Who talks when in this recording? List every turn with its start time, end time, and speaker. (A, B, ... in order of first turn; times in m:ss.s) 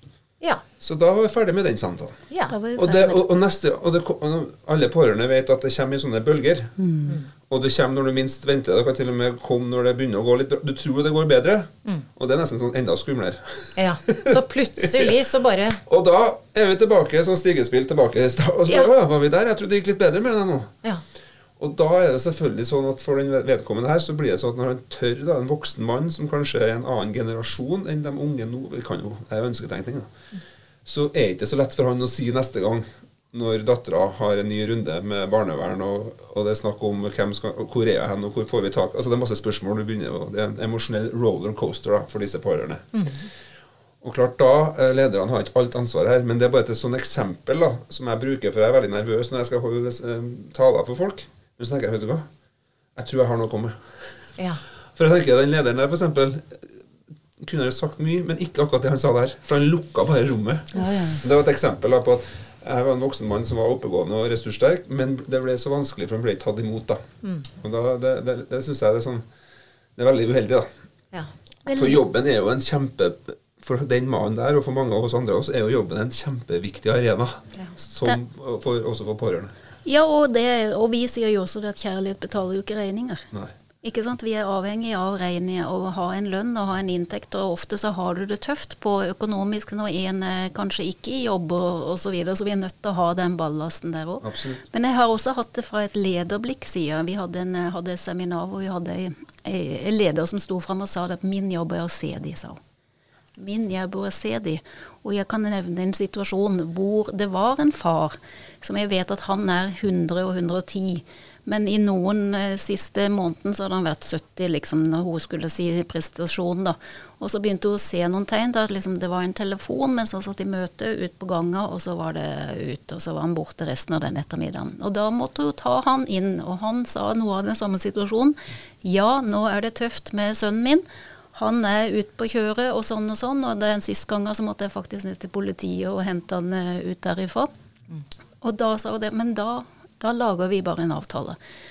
0:00.8-0:02.2 A
0:02.3-0:02.6 B
0:02.5-0:03.2 C
0:02.8-0:06.8 A
0:06.8-0:07.1 C
0:07.4-0:15.2 A
0:13.8-0:15.8 B
0:15.8-0:20.7 A
0:21.6-0:30.1 A
0:30.8-0:43.0 A
0:42.9-0:43.3 B
0:44.0-0:52.2 A
0:53.0-0:54.2 A
0:54.9-0:56.8 A
0:57.4-1:09.2 A
1:00.8-1:01.2 C
1:10.0-1:10.7 A
1:11.1-1:11.9 B
1:11.7-1:19.5 A
1:19.8-1:23.2 C
1:23.8-1:42.6 C
1:34.2-1:34.6 A
1:43.4-2:17.5 C
2:18.4-2:21.4 C